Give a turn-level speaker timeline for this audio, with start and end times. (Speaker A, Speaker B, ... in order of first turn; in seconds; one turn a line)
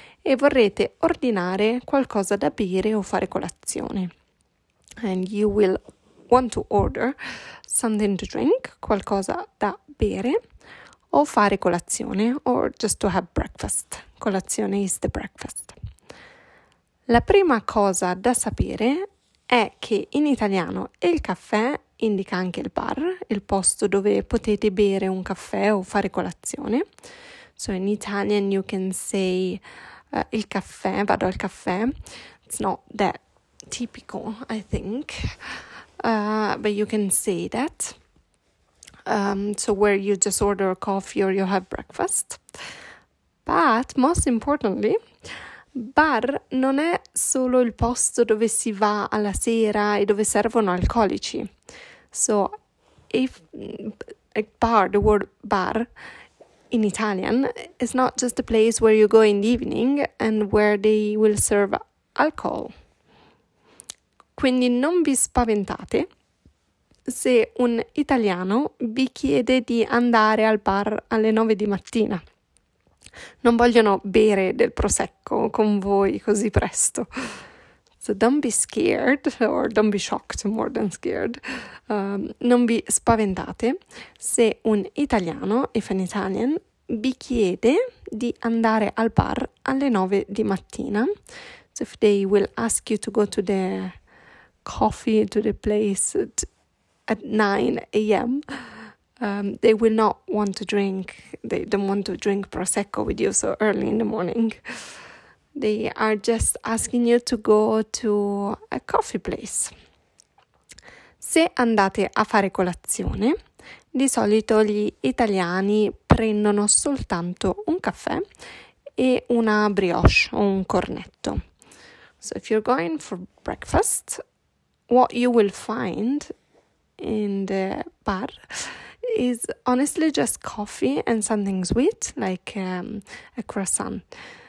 Speaker A: 0.2-4.1
Speaker A: 5.0-10.4
Speaker A: 11.1-15.8
Speaker A: 17.1-26.8
Speaker A: 27.6-31.9
Speaker A: 32.5-38.0
Speaker A: 39.0-42.5
Speaker A: 43.5-45.0
Speaker A: 45.7-51.5
Speaker A: 52.1-52.5
Speaker A: 53.1-55.9
Speaker A: 56.7-62.7
Speaker A: 64.3-66.1
Speaker A: 67.1-72.2
Speaker A: 73.4-77.1
Speaker A: 78.0-91.1
Speaker A: 91.7-94.0
Speaker A: 94.6-96.5
Speaker A: 97.1-98.4
Speaker A: 99.2-104.6
Speaker A: 105.5-109.7
Speaker A: 111.2-113.3
Speaker A: 113.9-118.2
Speaker A: 119.0-121.4
Speaker A: 122.2-124.2
Speaker A: 124.9-126.3
Speaker A: 127.0-134.0